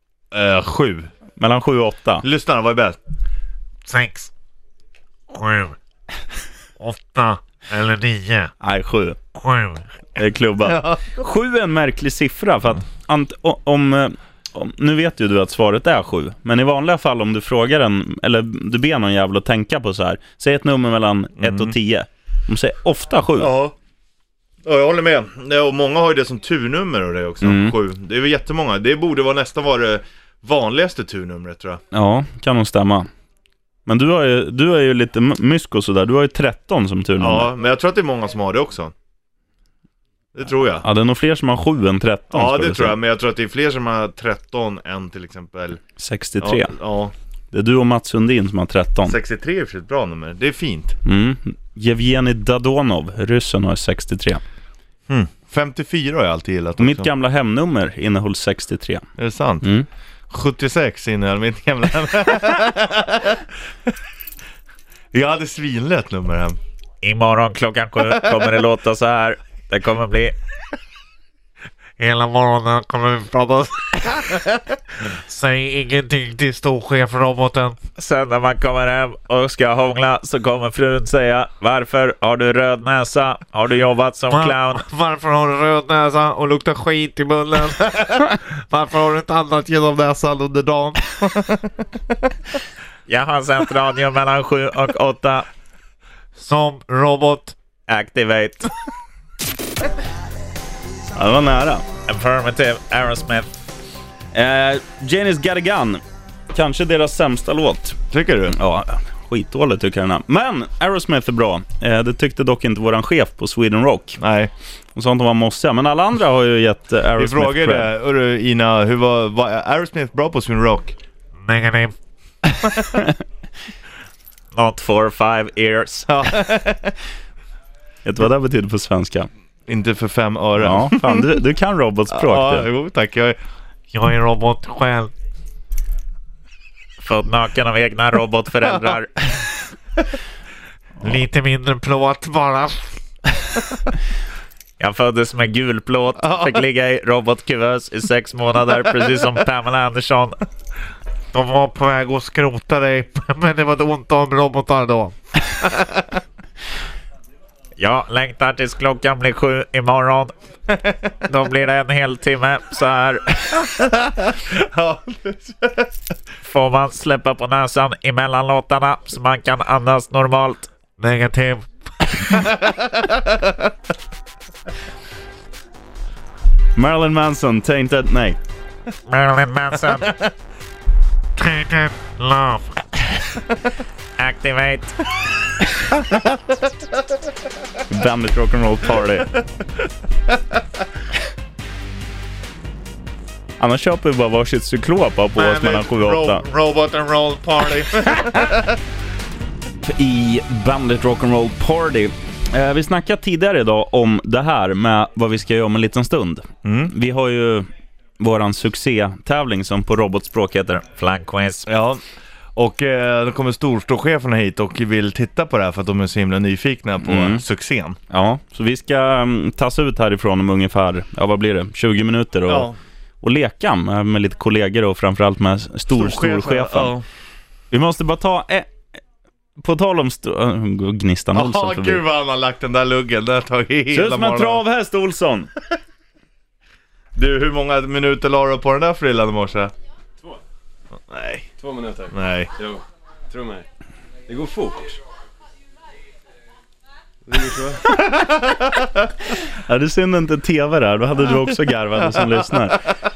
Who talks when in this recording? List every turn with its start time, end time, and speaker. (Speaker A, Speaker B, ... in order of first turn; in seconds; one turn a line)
Speaker A: 0.3-1.1
Speaker B: 1.4-2.2
Speaker A: 2.2-3.0
Speaker C: 3.8-4.3
Speaker C: 5.3-5.8
Speaker C: 6.8-8.5
Speaker B: 8.6-9.2
Speaker C: 9.4-9.9
Speaker B: 10.2-23.6
Speaker A: 10.6-11.0
Speaker A: 21.4-21.8
Speaker A: 23.4-23.8
Speaker A: 24.6-31.8
Speaker B: 27.4-27.8
Speaker B: 31.9-33.1
Speaker B: 33.9-37.5
Speaker A: 37.2-38.9
Speaker A: 40.3-40.9
Speaker B: 40.8-43.0
Speaker A: 42.3-45.8
Speaker B: 46.0-46.8
Speaker A: 46.4-47.1
Speaker B: 47.5-49.2
Speaker A: 49.0-51.0
Speaker B: 51.0-54.4
Speaker A: 55.1-57.1
Speaker B: 56.8-59.1
Speaker A: 59.2-59.7
Speaker A: 60.3-63.4
Speaker A: 65.1-66.6
Speaker D: 67.0-70.4
Speaker C: 72.0-74.5
Speaker C: 75.0-77.8
Speaker D: 78.0-84.8
Speaker C: 84.3-91.0
Speaker D: 93.1-95.5
Speaker C: 96.4-97.5
Speaker B: 97.9-98.7
Speaker B: 101.1-101.9
Speaker D: 102.1-103.5
Speaker B: 104.3-108.0
Speaker A: 108.1-108.6
Speaker B: 108.5-114.2
Speaker A: 114.2-114.5
Speaker B: 115.0-117.9
Speaker A: 117.2-121.0
Speaker C: 121.4-122.0
Speaker B: 122.5-123.2
Speaker B: 124.6-126.1
Speaker A: 126.1-127.0
Speaker B: 128.1-129.3
Speaker A: 129.7-131.3
Speaker B: 130.6-132.7
Speaker A: 132.1-133.4
Speaker C: 133.9-135.1
Speaker D: 137.0-139.0
Speaker B: 138.2-139.1
Speaker C: 141.0-142.9
Speaker D: 144.8-146.7
Speaker B: 146.1-149.1
Speaker D: 148.2-150.4
Speaker C: 151.3-155.2
Speaker D: 157.8-160.3
Speaker D: 161.3-163.5
Speaker A: 163.6-166.1
Speaker D: 166.4-170.7
Speaker C: 171.0-172.3
Speaker A: 172.5-173.7
Speaker B: 176.8-178.4
Speaker D: 179.1-180.2
Speaker C: 181.4-182.8
Speaker D: 184.2-185.0
Speaker B: 187.9-189.4
Speaker B: 193.6-196.4
Speaker C: 195.4-198.3
Speaker B: 199.8-207.7
Speaker A: 206.6-206.9
Speaker B: 208.2-210.9
Speaker D: 210.9-211.7
Speaker A: 211.7-212.0
Speaker A: 212.6-218.0
Speaker B: 217.0-217.4
Speaker B: 218.1-222.7
Speaker A: 222.5-222.8
Speaker B: 223.2-226.9
Speaker A: 225.9-227.1
Speaker B: 227.7-228.9
Speaker B: 229.6-232.0
Speaker A: 231.3-234.6
Speaker B: 233.9-235.5
Speaker A: 237.2-239.7
Speaker A: 241.1-241.5
Speaker E: 241.6-243.7
Speaker A: 242.1-242.5
Speaker E: 244.3-245.0
Speaker E: 247.3-247.8
Speaker A: 247.9-248.9
Speaker B: 249.6-252.9